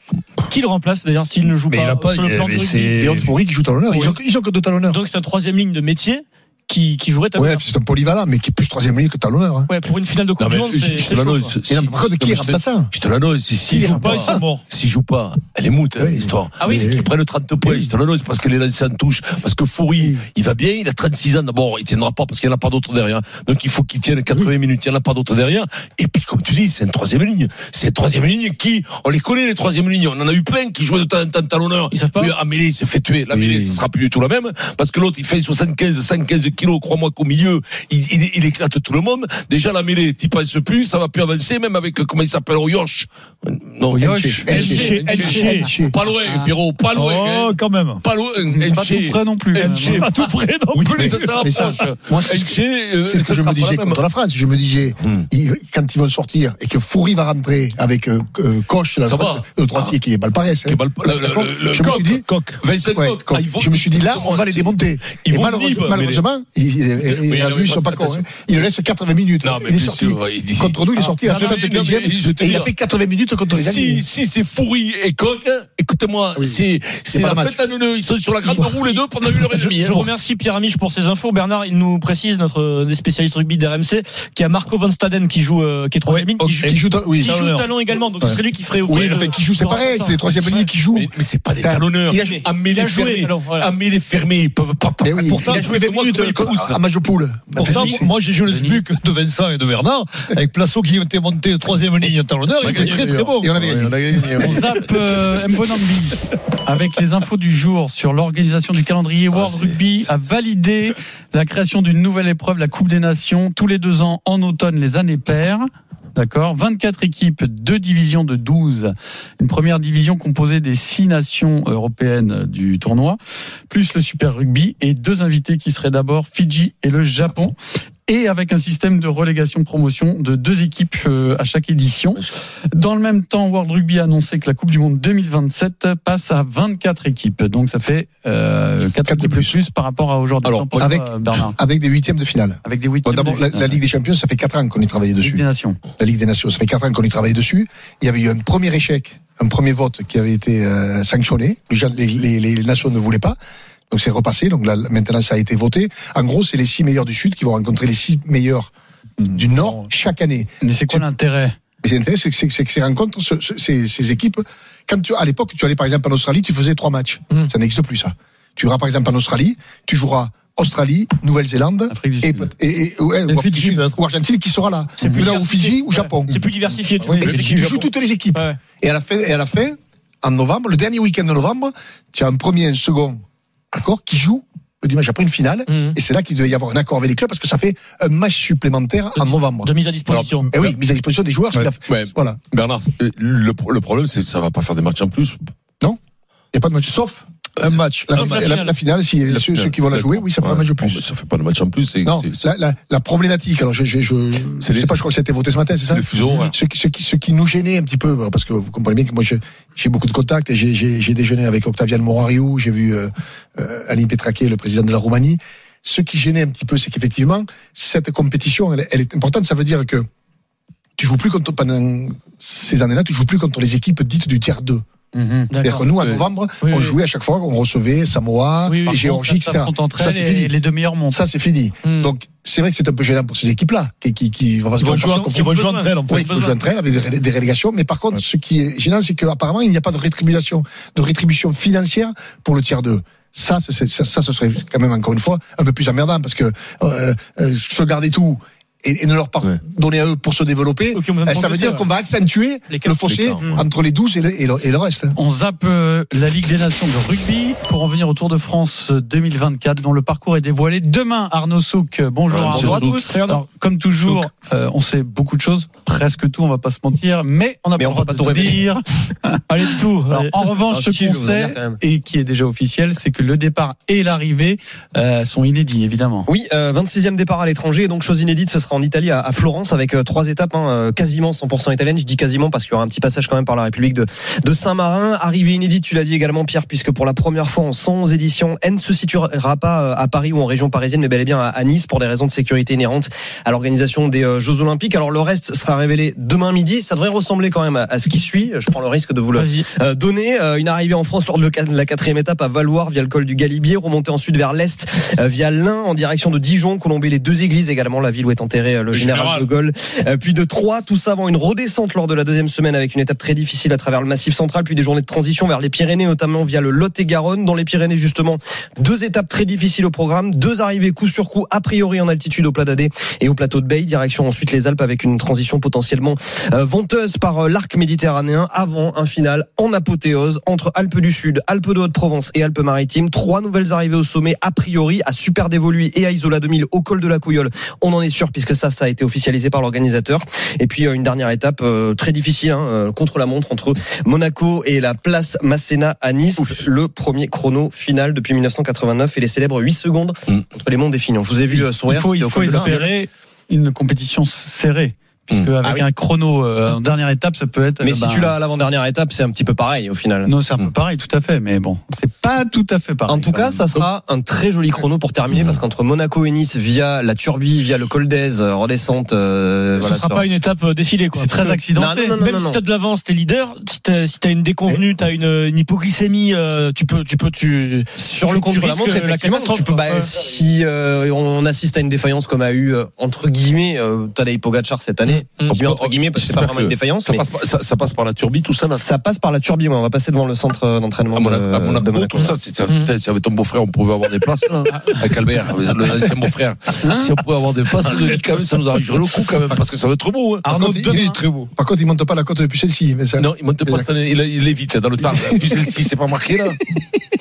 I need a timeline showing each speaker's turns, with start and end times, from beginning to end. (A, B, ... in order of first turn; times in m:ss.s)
0:00.5-0:03.0 A
0:01.7-0:03.3 B
0:02.9-0:05.0 C
0:04.9-0:07.6 A
0:07.4-0:09.7 C
0:09.7-0:11.6 A
0:10.4-0:54.0 D
0:11.7-0:12.9 C
0:13.7-0:14.6 B
0:13.7-0:14.4 C
0:16.0-0:17.1 C
0:16.6-0:16.9 A
0:17.6-0:17.9 C
0:20.0-0:20.2 C
0:31.9-0:32.4 A
0:33.3-0:33.8 C
0:43.9-0:46.0 C
0:43.9-0:45.3 E
0:44.5-0:45.7 B
0:46.9-0:48.0 B
0:48.5-0:50.1 E
0:49.5-0:51.7 B
0:51.0-1:02.3 C
0:59.0-1:00.0 D
1:00.6-1:06.2 D
1:01.5-1:02.6 B
1:02.8-1:14.1 C
1:07.0-1:08.6 D
1:09.4-1:12.7 D
1:11.3-1:11.6 A
1:13.5-1:20.1 D
1:17.1-1:17.6 C
1:18.4-1:26.7 A
1:26.1-1:27.8 B
1:26.6-1:27.4 C
1:27.2-1:30.7 A
1:28.2-1:32.4 C
1:30.9-1:36.8 D
1:32.2-1:33.7 A
1:35.0-1:38.1 C
1:37.6-1:43.9 B
1:38.4-1:38.8 E
1:42.6-1:44.7 D
1:42.7-1:44.7 C
1:44.4-2:07.6 E
1:49.3-1:50.1 D
2:08.1-2:21.6 E
2:19.0-2:19.6 C
2:20.4-2:20.9 D
2:20.8-2:33.4 C
2:22.6-2:23.8 E
2:25.2-2:25.8 E
2:33.9-2:38.7 C
2:39.2-2:39.9 B
2:39.3-2:41.1 C
2:40.6-2:41.6 E
2:41.8-2:56.5 C
2:51.9-2:52.5 E
2:53.3-2:54.0 B
2:55.0-2:58.6 A
2:57.0-2:57.6 B
2:57.1-3:03.2 C
3:03.7-3:09.7 C
3:05.7-3:06.0 A
3:09.2-3:10.6 A
3:10.1-3:10.7 D
3:10.5-3:12.4 C
3:11.9-3:15.4 D
3:16.5-3:17.2 C
3:17.6-3:18.5 B
3:18.0-3:21.0 C
3:18.1-3:18.8 A
3:19.3-3:22.4 D
3:22.0-3:40.1 C
3:24.6-3:25.1 D
3:25.9-3:26.5 D
3:41.0-3:44.8 C
3:45.1-3:45.5 E
3:45.5-3:47.0 A
3:45.6-3:50.5 C
3:48.6-3:49.0 A
3:48.9-3:51.2 E
3:51.1-4:15.2 C
3:51.8-3:52.1 A
3:54.8-3:56.6 B
3:55.2-3:56.4 A
4:10.9-4:11.9 A
4:12.7-4:13.6 A
4:13.1-4:13.6 D
4:15.2-4:29.4 E
4:22.3-4:23.4 D
4:27.8-4:28.6 F
4:29.5-4:30.4 A
4:30.1-4:36.3 E
4:30.7-4:31.8 F
4:36.3-5:52.9 F
4:59.3-4:59.6 A
5:08.9-5:09.5 D
5:51.5-5:58.4 E
5:57.8-6:00.3 F
6:00.3-6:03.8 E
6:03.1-6:10.3 F
6:05.3-6:05.6 D
6:09.8-6:11.6 A
6:11.1-6:12.2 E
6:11.8-6:12.6 F
6:12.2-6:20.2 A
6:18.0-6:27.2 F
6:25.1-6:28.8 D
6:25.2-6:25.6 A
6:28.7-6:32.4 F
6:31.1-6:40.5 D
6:32.2-6:32.9 A
6:36.8-6:37.1 E
6:40.4-6:41.2 E
6:40.5-6:41.0 C
6:40.9-6:41.5 B
6:41.6-6:43.9 C
6:43.2-6:46.6 D
6:45.1-6:45.6 C